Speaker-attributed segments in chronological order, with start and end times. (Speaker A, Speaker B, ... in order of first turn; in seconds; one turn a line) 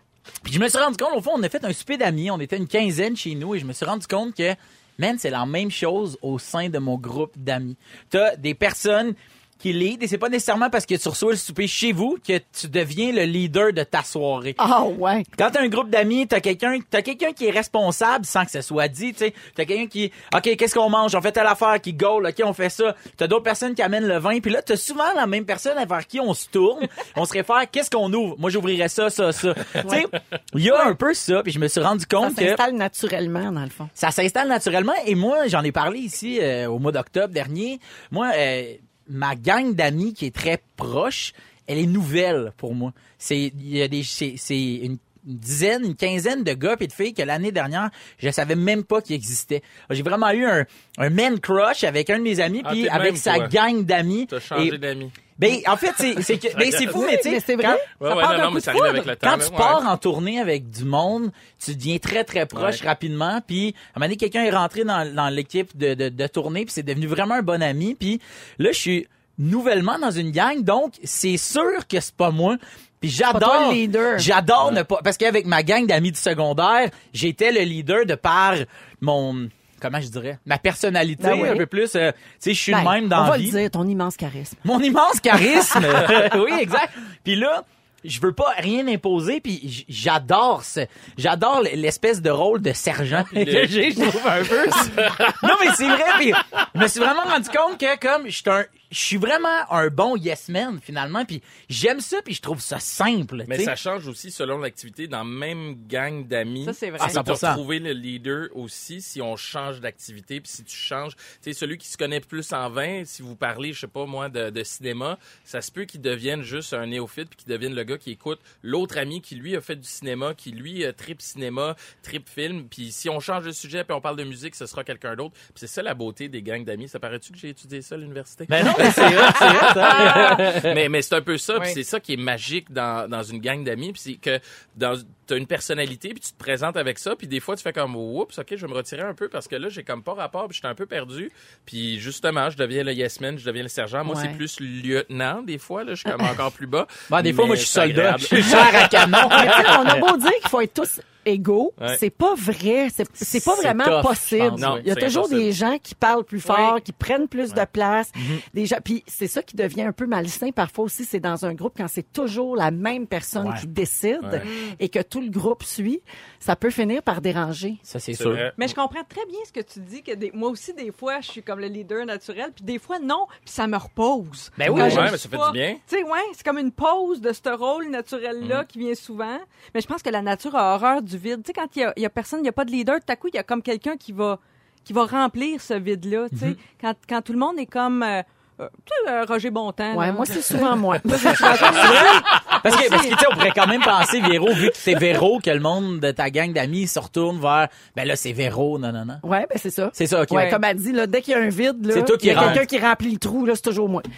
Speaker A: 0.4-14.6
Speaker B: 14.6-15.3
Speaker A: 15.3-32.6
Speaker B: 29.8-30.1
Speaker B: 32.2-33.9
Speaker A: 33.9-54.8
Speaker C: 52.6-53.5
Speaker C: 54.3-55.1
Speaker A: 55.4-83.6
Speaker C: 56.5-57.0
Speaker B: 56.8-57.9
Speaker C: 58.0-59.8
Speaker C: 62.5-62.8
Speaker B: 73.3-74.3
Speaker B: 81.2-81.6
Speaker B: 82.7-84.6
Speaker A: 84.6-103.7
Speaker B: 85.5-86.0
Speaker C: 93.2-93.8
Speaker C: 94.7-95.5
Speaker C: 103.5-149.9
Speaker D: 106.6-107.2
Speaker A: 107.0-107.6
Speaker A: 128.5-130.8
Speaker D: 128.7-130.4
Speaker B: 144.1-144.4
Speaker A: 147.1-150.1
Speaker B: 148.4-148.7
Speaker B: 149.2-167.8
Speaker A: 153.2-154.8
Speaker C: 154.6-155.5
Speaker D: 156.4-156.8
Speaker A: 158.2-158.4
Speaker A: 163.4-163.6
Speaker D: 164.4-164.8
Speaker A: 167.8-168.4
Speaker C: 168.1-168.7
Speaker D: 168.6-193.2
Speaker A: 174.6-175.1
Speaker C: 174.7-175.8
Speaker A: 186.3-186.6
Speaker B: 189.9-192.2
Speaker A: 191.5-199.2
Speaker C: 191.8-192.0
Speaker B: 199.2-204.1
Speaker A: 199.9-200.6
Speaker A: 201.9-202.7
Speaker C: 202.3-202.6